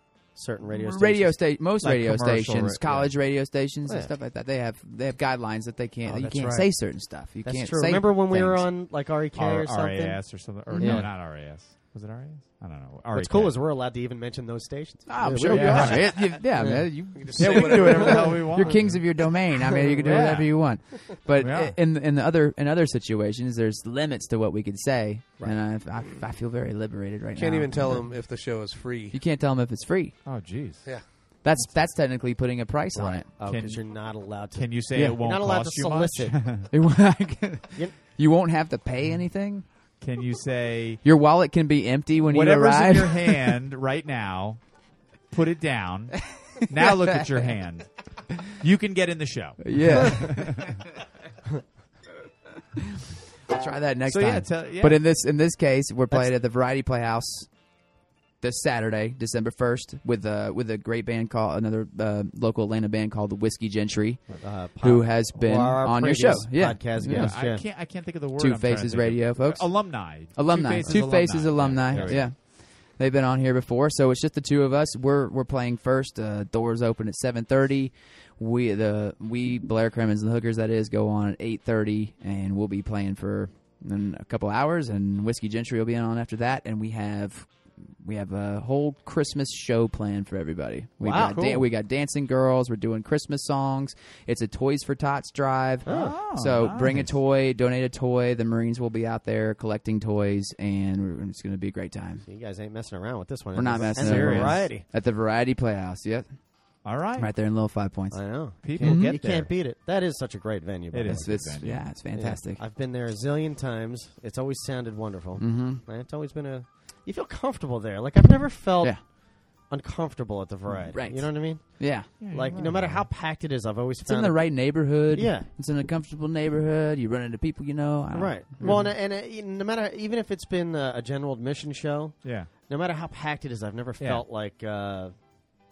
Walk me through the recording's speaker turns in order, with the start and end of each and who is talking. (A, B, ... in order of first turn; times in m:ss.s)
0:00.3-0:01.4 A
0:00.7-0:08.6 B
0:01.8-0:03.1 C
0:03.8-0:04.1 A
0:06.0-0:06.8 A
0:07.4-0:11.1 A
0:09.4-0:13.6 C
0:10.7-0:11.1 B
0:13.1-0:16.9 A
0:15.1-0:28.0 B
0:15.4-0:16.4 C
0:17.1-0:18.4 D
0:17.3-0:19.2 C
0:19.8-0:20.2 A
0:20.0-0:20.6 C
0:21.4-0:21.8 C
0:27.3-0:29.2 D
0:29.1-0:30.1 B
0:30.2-0:30.9 C
0:31.4-0:33.3 B
0:32.9-0:36.4 A
0:33.4-0:36.7 C
0:36.7-0:39.6 B
0:40.0-0:41.0 C
0:41.0-0:43.6 B
0:42.3-0:44.6 C
0:45.3-0:50.8 C
0:46.6-0:47.2 B
0:49.6-0:50.7 B
0:53.5-0:57.5 B
0:54.1-0:55.0 C
0:58.4-1:07.4 B
1:04.4-1:07.6 A
1:07.0-1:12.3 C
1:08.4-1:27.5 B
1:10.8-1:11.1 A
1:11.8-1:12.3 A
1:28.0-1:42.2 B
1:31.0-1:31.4 A
1:31.2-1:31.6 C
1:35.8-1:36.2 A
1:35.8-1:37.1 C
1:42.2-1:44.8 A
1:43.5-1:46.4 B
1:43.9-1:44.6 C
1:46.8-1:47.3 C
1:47.2-1:49.2 B
1:48.1-1:51.4 A
1:48.6-1:49.5 C
1:50.9-1:51.8 C
1:51.0-1:52.6 B
1:52.1-2:05.5 A
1:55.4-1:55.8 B
2:00.7-2:00.9 C
2:00.9-2:02.1 B
2:02.2-2:03.1 C
2:04.0-2:08.9 B
2:08.1-2:15.1 A
2:12.2-2:12.5 C